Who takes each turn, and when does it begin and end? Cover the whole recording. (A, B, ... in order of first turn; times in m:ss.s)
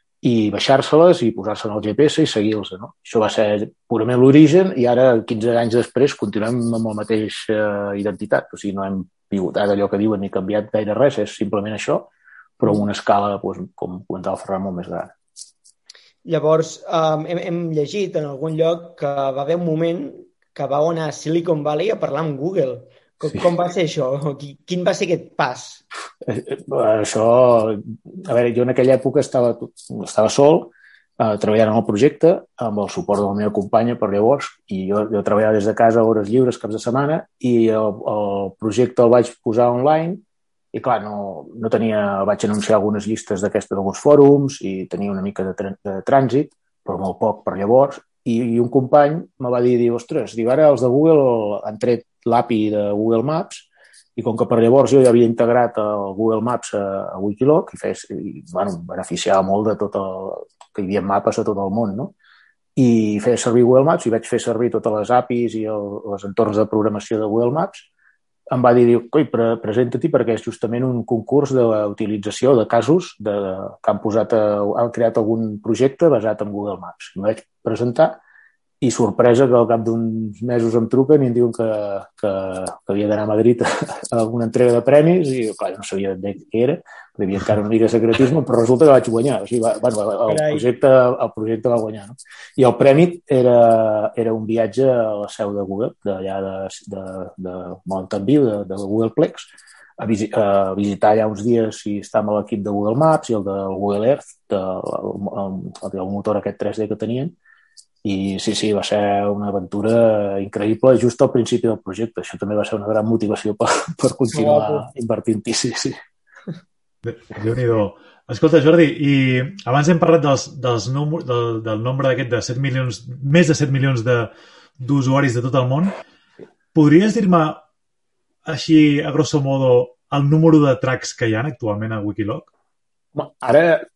0:00.2-0:15.1 A
0:16.2-0:25.8 B
0:26.2-1:02.1 A
1:02.8-1:07.9 A
1:08.5-1:18.2 A
1:18.8-1:47.4 A
1:30.3-1:30.7 B
1:48.0-1:56.0 A
1:54.3-1:54.9 B
1:57.0-2:06.0 C
2:06.7-2:07.6 C
2:08.5-2:12.5 C
2:13.2-2:13.8 A